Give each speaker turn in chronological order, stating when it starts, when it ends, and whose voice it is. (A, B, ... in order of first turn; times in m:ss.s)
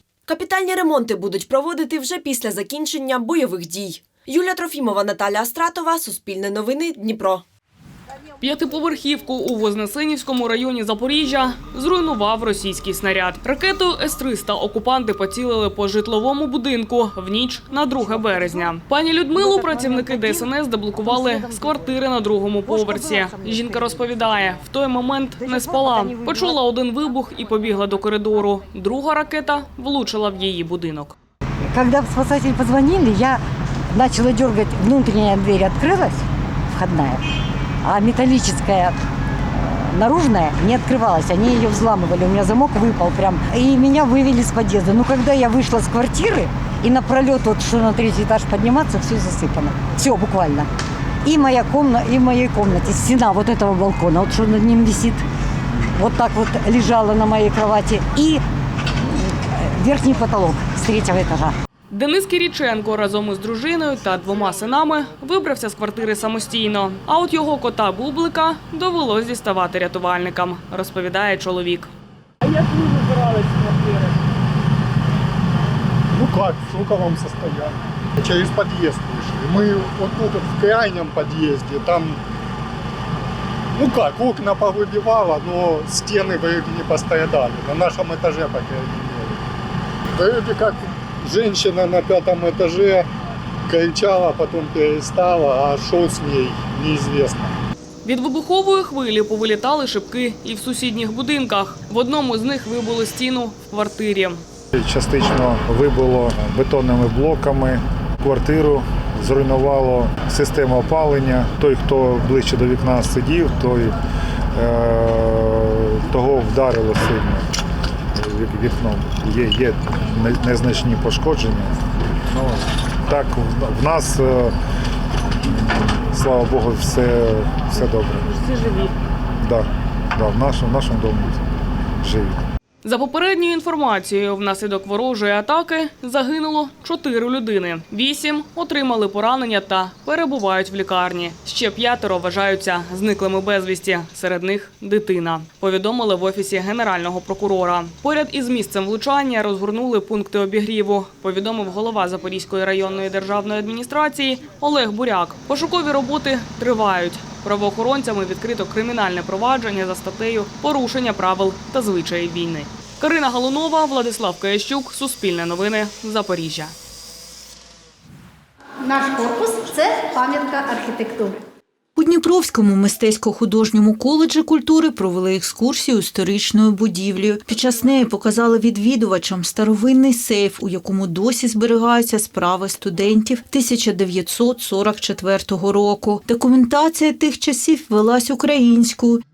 0:00.3-0:07.4 A
0:08.4-0:31.1 B
0:18.3-0:18.7 C
0:19.4-0:21.9 C
0:22.6-0:24.4 C
0:25.3-0:26.6 C
0:31.6-0:36.2 C
0:36.7-0:37.2 C
0:37.8-0:39.0 C
0:39.5-0:50.7 C
0:51.2-0:55.2 C
0:55.9-0:58.4 C
0:59.0-1:01.5 C
1:01.9-1:11.9 B
1:16.1-1:22.2 D
1:23.7-1:29.4 D
1:30.2-1:33.0 D
1:33.7-1:37.5 D
1:38.0-1:44.4 B
1:44.7-1:54.0 E
1:54.5-1:57.4 E
1:58.2-2:04.5 E
2:05.4-2:08.2 E
2:08.3-2:08.9 B
2:09.4-2:11.4 E
2:12.0-2:12.4 E
2:12.8-2:46.7 B
2:48.9-2:51.3 F
2:52.0-3:09.2 G